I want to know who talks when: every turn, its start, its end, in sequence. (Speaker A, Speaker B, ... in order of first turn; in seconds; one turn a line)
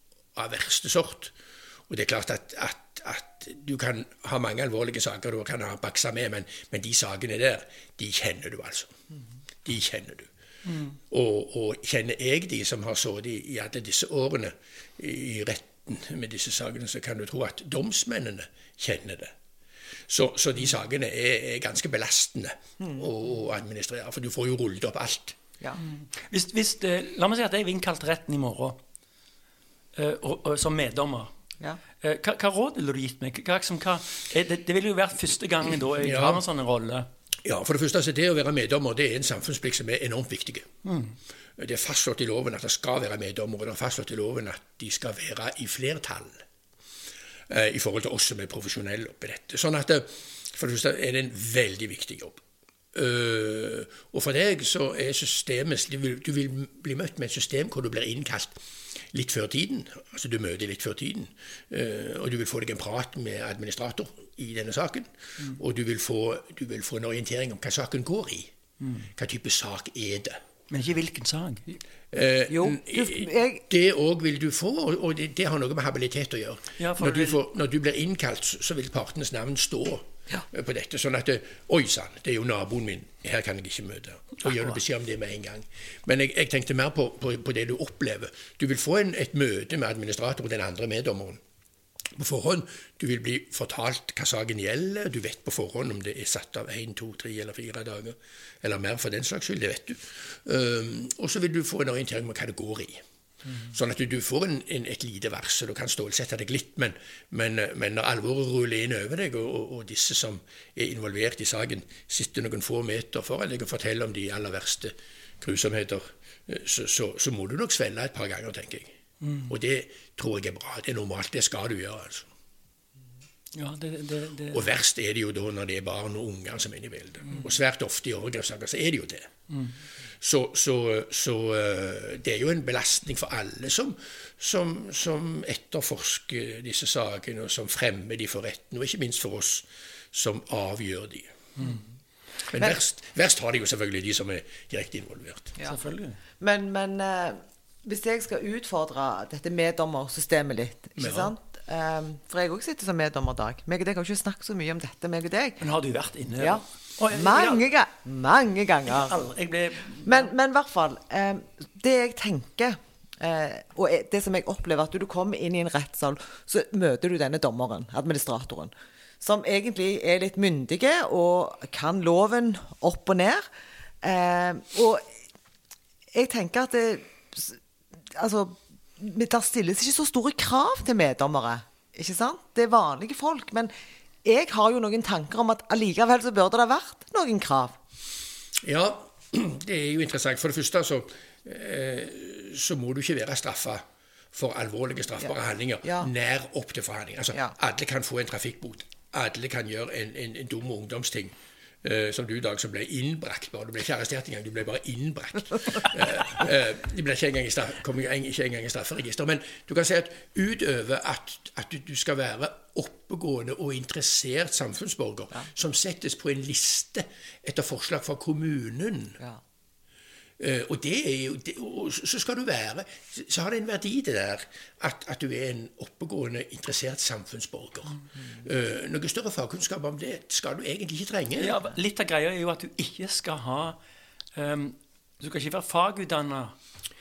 Speaker A: 0.3-1.3
Speaker A: 1.9-8.9
Speaker A: 9.6-10.3
Speaker B: 10.7-11.0
Speaker A: 11.1-19.3
Speaker A: 20.1-25.4
Speaker B: 25.8-28.8
Speaker B: 29.9-31.3
Speaker B: 32.0-37.1
Speaker A: 36.0-36.4
Speaker A: 37.5-40.7
Speaker B: 40.9-41.2
Speaker A: 41.6-46.4
Speaker A: 47.5-52.4
Speaker A: 52.9-68.5
Speaker B: 68.8-69.1
Speaker A: 69.2-70.4
Speaker B: 70.7-71.7
Speaker A: 72.1-91.4
Speaker C: 72.5-73.6
Speaker B: 76.8-77.4
Speaker A: 92.2-103.0
Speaker A: 103.7-118.9
Speaker B: 119.2-119.5
Speaker A: 119.5-122.3
Speaker B: 123.5-124.7
Speaker A: 124.5-129.3
Speaker B: 129.5-129.8
Speaker A: 130.2-141.4
Speaker A: 142.5-145.6
Speaker B: 145.6-146.2
Speaker C: 146.4-155.6
Speaker A: 151.0-151.3
Speaker B: 155.6-157.7
Speaker C: 156.4-159.2
Speaker B: 158.9-160.3
Speaker C: 160.0-173.5
Speaker C: 174.0-175.0
Speaker C: 176.1-177.6
Speaker C: 178.2-183.7
Speaker C: 184.2-187.8
Speaker A: 188.6-219.2
Speaker C: 195.8-196.1
Speaker A: 220.4-231.6
Speaker B: 231.4-233.8
Speaker B: 234.3-236.6